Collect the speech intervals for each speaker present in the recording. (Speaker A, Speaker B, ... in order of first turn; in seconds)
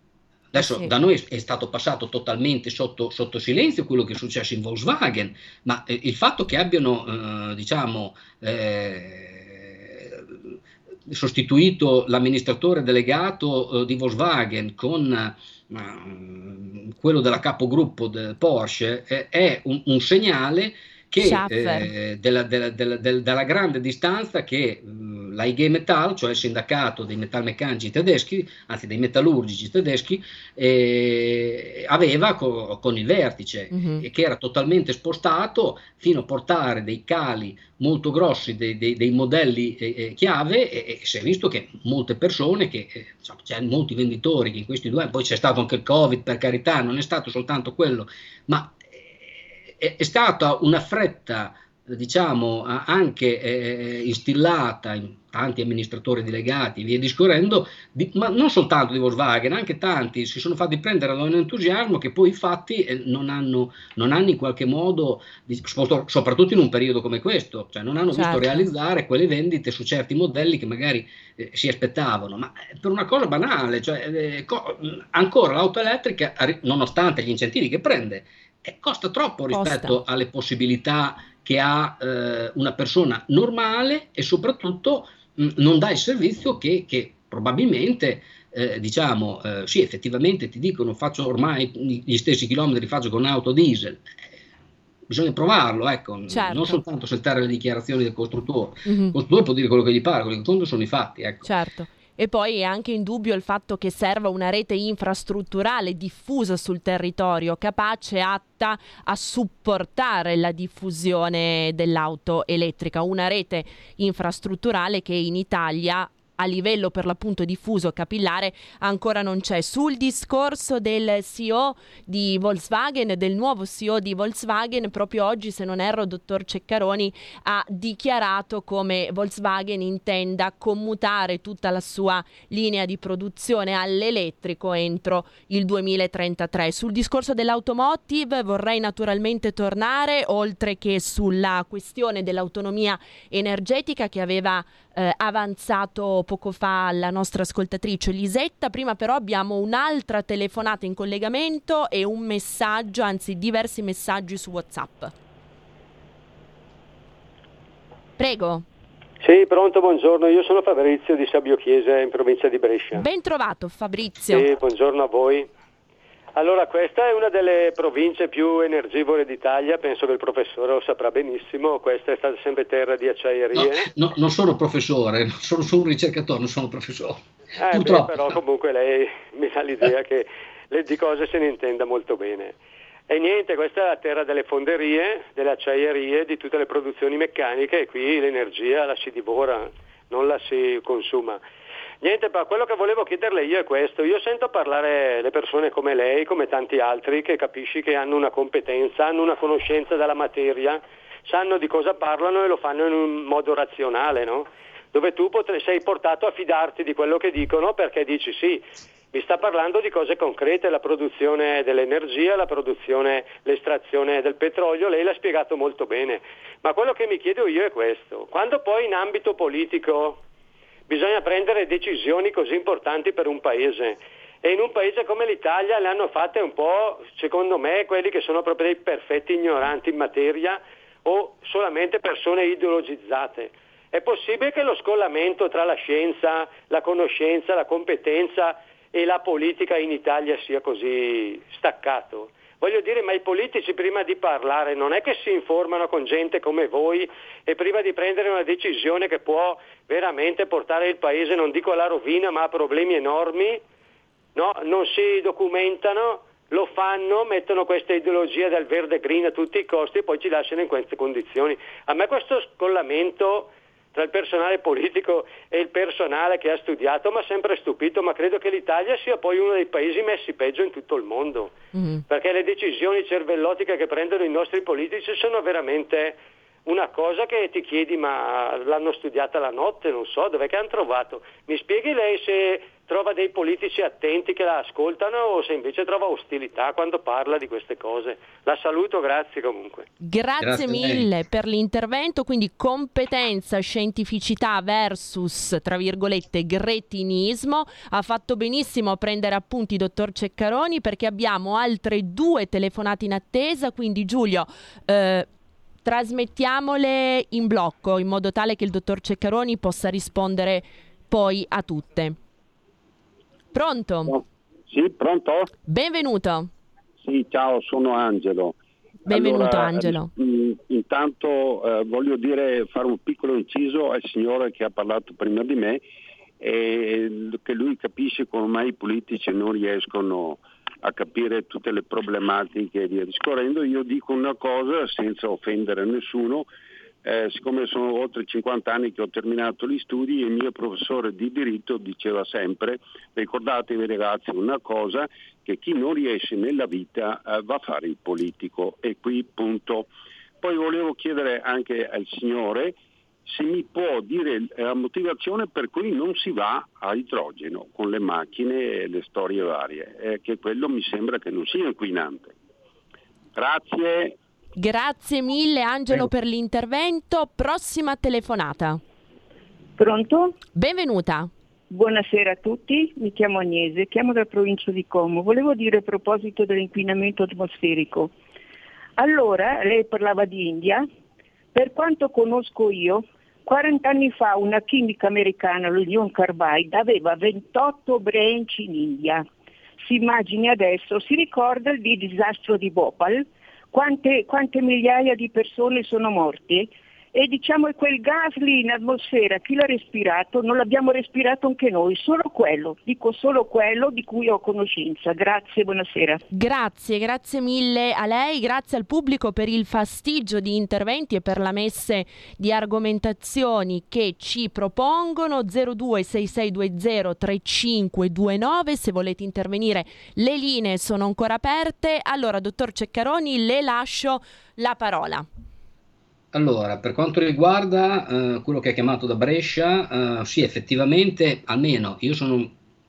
Speaker A: 0.5-10.2, 11.1-48.8, 49.8-94.0, 95.1-101.5, 173.5-178.4, 290.4-291.1, 426.3-432.5
Speaker B: 0.6-0.9, 21.2-21.9, 33.7-34.0, 68.1-68.7, 79.5-80.0, 96.3-96.8, 98.8-99.1, 101.4-155.1, 158.2-158.6, 162.9-164.5, 271.7-272.0, 290.0-305.3, 305.8-312.1, 313.5-314.2, 315.7-316.5, 319.1-320.1, 364.6-368.8, 370.5-371.3, 406.3-425.2
Speaker C: 159.2-163.1, 164.3-165.5, 166.3-173.9, 177.6-182.5, 183.1-191.4, 192.0-220.2, 220.9-253.6, 254.3-271.5, 272.1-289.9
Speaker D: 314.1-315.5, 317.0-318.5, 319.1-325.8, 326.4-336.5, 337.0-349.9, 350.4-362.3, 363.4-364.1
Speaker E: 369.8-370.4, 371.7-378.1, 379.0-380.9, 381.5-389.3, 389.9-406.2